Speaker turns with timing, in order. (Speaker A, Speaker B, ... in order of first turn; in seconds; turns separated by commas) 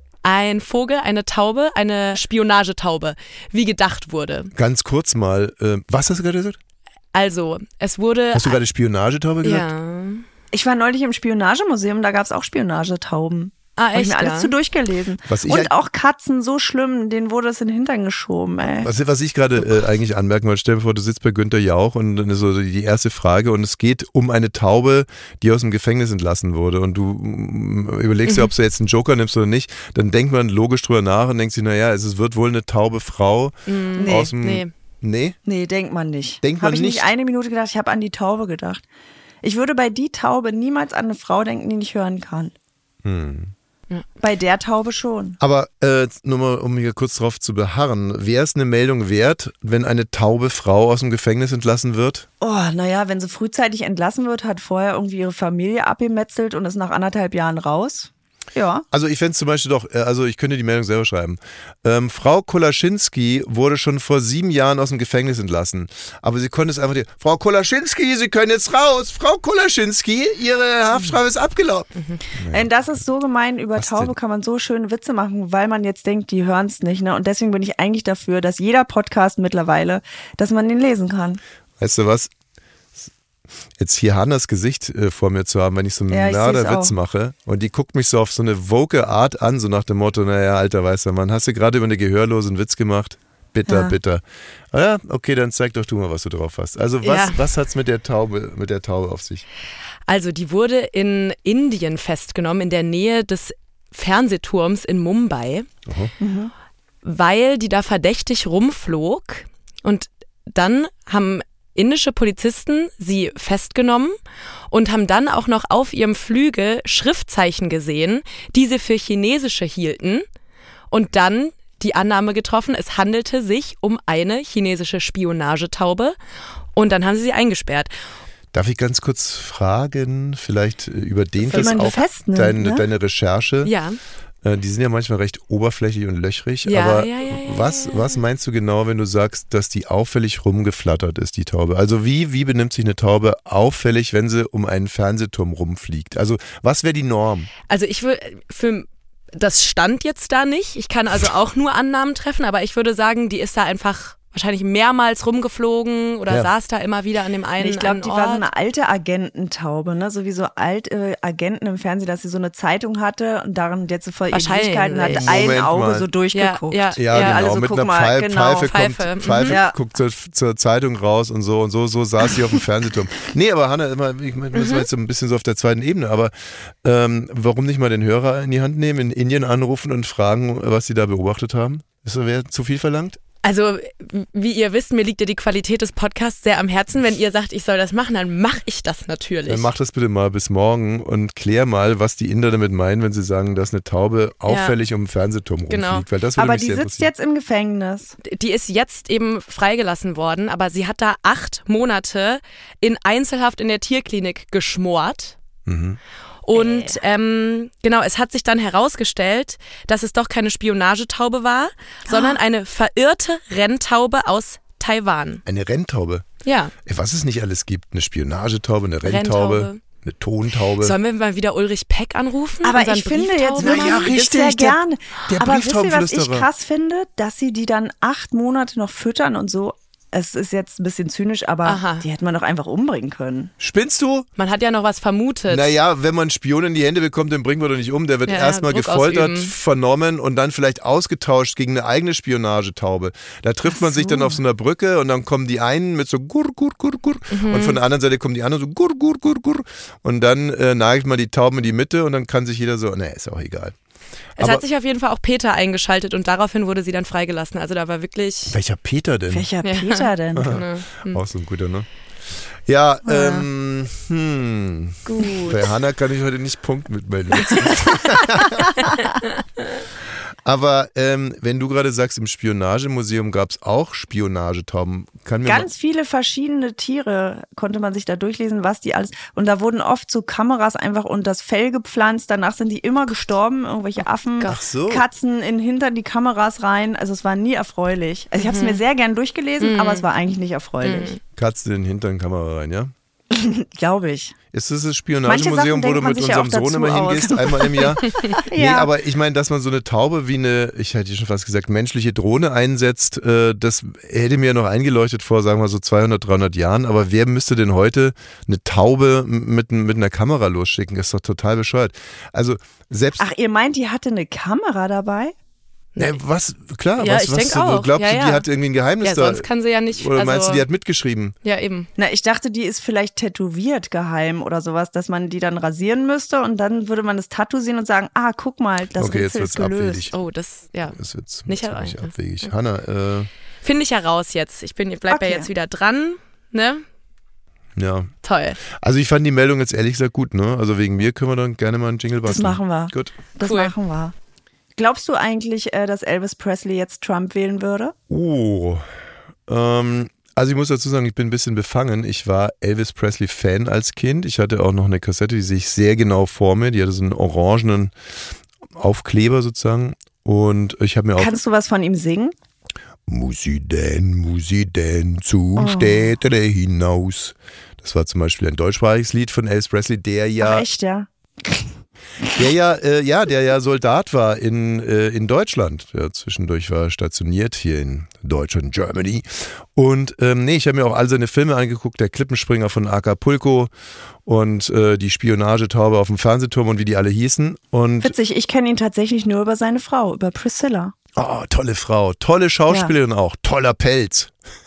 Speaker A: 0.2-4.5, Speaker B: 4.5-6.6, Speaker A: 7.1-8.6, Speaker B: 8.3-9.7, Speaker A: 9.4-10.2, Speaker C: 10.5-18.9, Speaker A: 13.8-14.5, Speaker B: 15.3-15.7, Speaker B: 18.8-35.4, Speaker A: 28.2-28.5, Speaker A: 33.7-34.7, Speaker C: 34.0-34.4, Speaker C: 35.5-38.8, Speaker B: 36.4-37.1, Speaker C: 39.4-42.5, Speaker B: 43.0-43.5, Speaker C: 44.2-45.4, Speaker B: 45.4-52.3, Speaker C: 52.4-58.8, Speaker B: 58.9-72.7, Speaker C: 72.5-81.4, Speaker B: 73.8-74.1, Speaker B: 81.8-82.3, Speaker B: 83.8-99.4, Speaker C: 86.1-86.9, Speaker C: 93.7-93.9, Speaker A: 97.0-97.4, Speaker A: 100.1-105.7, Speaker B: 105.8-106.1, Speaker C: 106.2-106.5, Speaker A: 107.0-114.1, Speaker A: 114.7-120.2, Speaker A: 120.9-126.2, Speaker A: 126.7-127.9, Speaker B: 128.5-133.7, Speaker C: 131.5-132.8, Speaker A: 131.5-131.8, Speaker A: 133.6-134.0, Speaker B: 134.4-147.5, Speaker A: 136.6-138.2, Speaker A: 147.7-158.4, Speaker C: 157.6-168.8, Speaker A: 164.3-165.5, Speaker B: 165.1-166.1, Speaker A: 166.3-167.5, Speaker B: 167.0-176.3, Speaker A: 168.6-169.6, Speaker C: 169.4-169.8, Speaker A: 174.5-174.8, Speaker B: 176.8-183.2, Speaker A: 183.4-189.7, Speaker B: 189.4-197.1, Speaker A: 194.4-194.7, Speaker A: 195.7-196.1, Speaker C: 196.4-198.2, Speaker A: 198.2-205.3, Speaker B: 205.7-206.0, Speaker A: 206.5-215.4, Speaker C: 206.5-207.0, Speaker C: 212.1-212.4, Speaker B: 215.4-216.2, Speaker A: 216.4-216.7, Speaker B: 216.8-220.9, Speaker A: 219.0-219.8, Speaker A: 220.8-224.1, Speaker C: 222.6-233.5, Speaker B: 223.6-226.5, Speaker A: 231.6-232.0, Speaker B: 233.6-234.3, Speaker A: 234.4-235.7, Speaker B: 235.5-253.7, Speaker A: 238.3-239.5, Speaker A: 247.3-247.8, Speaker B: 254.4-254.6, Speaker A: 254.4-258.6, Speaker B: 258.5-259.5, Speaker C: 259.3-260.6, Speaker A: 259.6-261.2, Speaker B: 260.4-261.9, Speaker B: 262.6-268.8, Speaker C: 263.1-263.4, Speaker A: 265.1-265.6, Speaker B: 270.4-275.7, Speaker C: 275.4-291.1, Speaker B: 284.4-285.0, Speaker A: 288.4-288.8, Speaker A: 289.6-290.0, Speaker A: 290.8-291.2, Speaker B: 291.3-292.9, Speaker C: 293.3-294.3, Speaker B: 294.5-313.2, Speaker C: 295.3-298.9, Speaker C: 313.2-315.3, Speaker B: 316.0-321.3, Speaker A: 317.0-318.4, Speaker A: 319.0-320.6, Speaker A: 321.4-321.9, Speaker C: 322.0-330.1, Speaker B: 329.0-330.1, Speaker A: 330.1-332.1, Speaker B: 330.9-333.3, Speaker A: 333.6-336.8, Speaker C: 335.1-335.5, Speaker B: 337.8-338.1, Speaker A: 338.2-338.6, Speaker B: 338.6-343.1, Speaker C: 342.2-344.1, Speaker A: 343.4-343.7, Speaker C: 344.8-347.9, Speaker B: 348.1-348.8, Speaker B: 349.5-357.9, Speaker B: 358.8-361.4, Speaker C: 361.1-362.3, Speaker B: 363.1-370.7, Speaker C: 365.6-366.1, Speaker C: 370.4-371.7, Speaker B: 372.3-383.7, Speaker B: 384.2-388.1, Speaker C: 388.0-390.9, Speaker B: 391.1-394.3, Speaker C: 392.7-392.9